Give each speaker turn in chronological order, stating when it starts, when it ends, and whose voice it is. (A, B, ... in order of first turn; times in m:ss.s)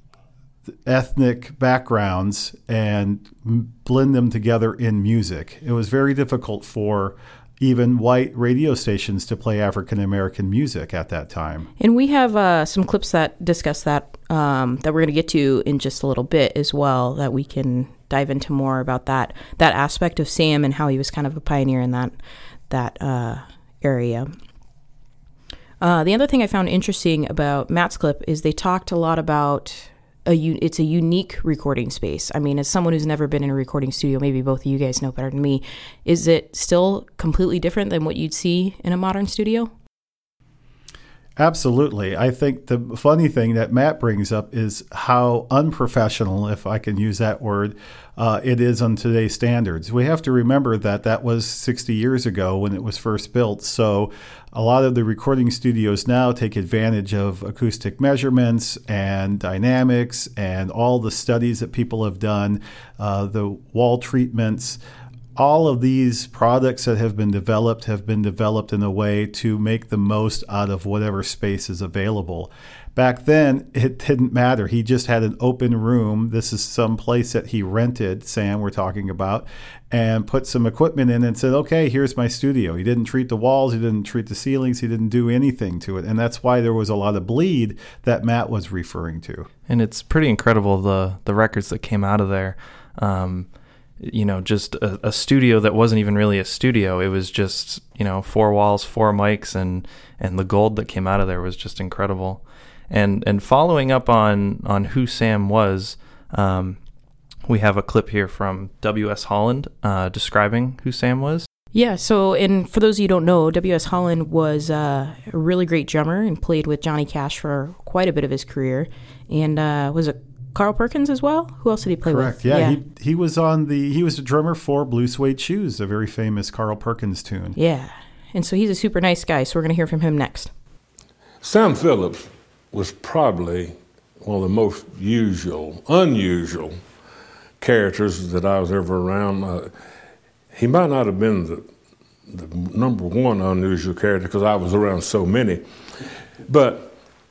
0:00.8-0:11.7 A
0:11.8-0:22.1 B
0:22.7-0:24.3 B
0:25.8-0:39.7 B
0:41.4-1:04.8 A
1:05.4-1:29.5 A
1:29.7-1:46.8 C
1:47.4-1:51.5 C
1:51.7-2:02.8 B
2:02.0-2:07.6 A
2:07.6-2:10.5 B
2:11.4-2:16.8 D
2:17.6-2:19.7 D
2:20.5-2:21.7 D
2:22.3-2:27.0 D